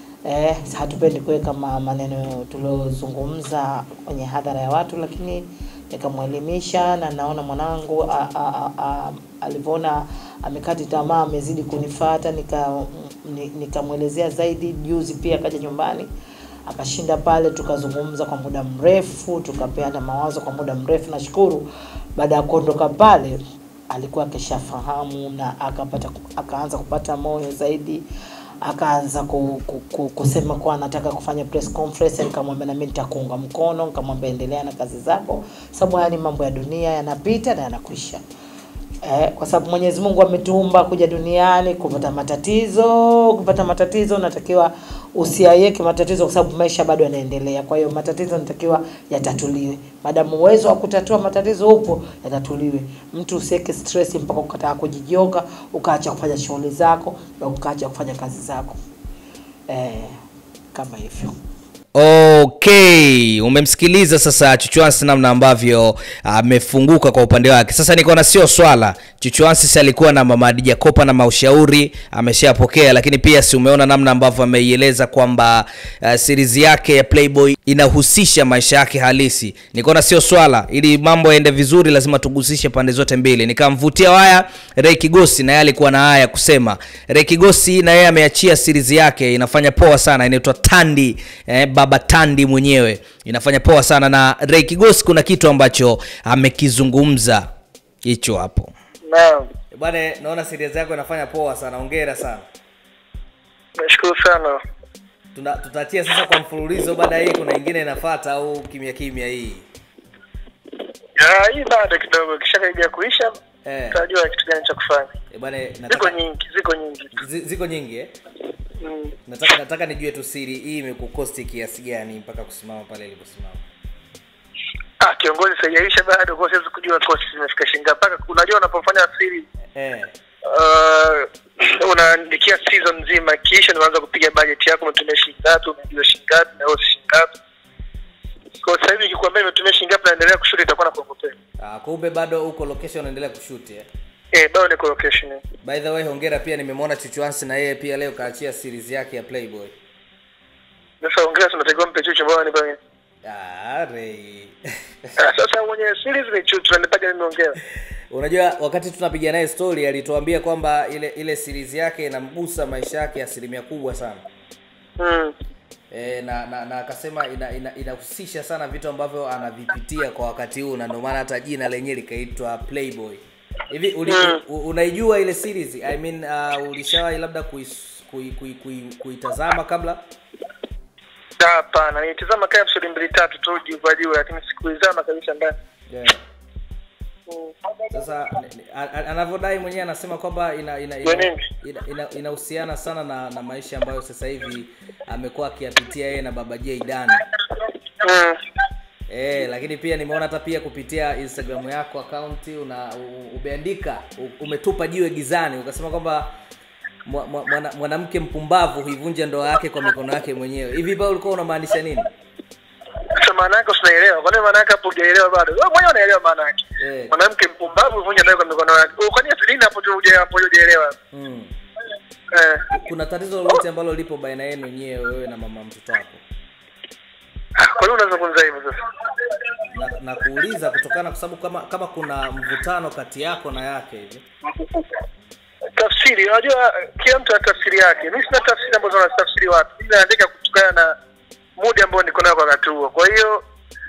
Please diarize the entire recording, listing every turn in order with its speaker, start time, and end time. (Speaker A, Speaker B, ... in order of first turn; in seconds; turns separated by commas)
Speaker A: 0.2-16.1, Speaker A: 16.7-23.4, Speaker A: 23.9-28.0, Speaker A: 28.6-38.2, Speaker A: 39.0-58.8, Speaker A: 59.7-60.1, Speaker A: 60.7-61.3, Speaker B: 61.9-97.5, Speaker B: 98.0-98.7, Speaker C: 99.0-99.5, Speaker B: 99.7-102.4, Speaker C: 103.8-104.6, Speaker B: 105.3-109.7, Speaker C: 111.2-113.3, Speaker B: 113.6-114.0, Speaker C: 113.9-115.1, Speaker B: 115.3-116.2, Speaker C: 115.9-117.1, Speaker B: 117.2-118.1, Speaker C: 118.8-119.1, Speaker B: 119.2-123.6, Speaker C: 125.0-129.4, Speaker B: 129.7-130.1, Speaker C: 130.5-137.3, Speaker C: 138.6-141.3, Speaker B: 141.6-143.9, Speaker C: 144.3-145.4, Speaker B: 145.6-149.7, Speaker C: 151.0-152.8, Speaker B: 153.2-154.5, Speaker C: 155.2-157.5, Speaker B: 158.1-164.2, Speaker C: 165.0-165.3, Speaker B: 165.9-180.0, Speaker C: 174.1-174.4, Speaker C: 181.4-185.5, Speaker B: 185.9-186.2, Speaker C: 187.3-187.6, Speaker B: 187.9-197.2, Speaker C: 191.0-191.4, Speaker C: 198.0-198.3, Speaker B: 199.1-206.3, Speaker B: 207.0-212.1, Speaker C: 213.2-220.9, Speaker B: 216.8-217.1, Speaker B: 221.1-221.5, Speaker C: 222.3-222.6, Speaker B: 222.7-226.2, Speaker C: 227.6-228.7, Speaker B: 229.7-234.2, Speaker C: 234.5-234.8, Speaker C: 235.8-240.9, Speaker C: 241.6-243.4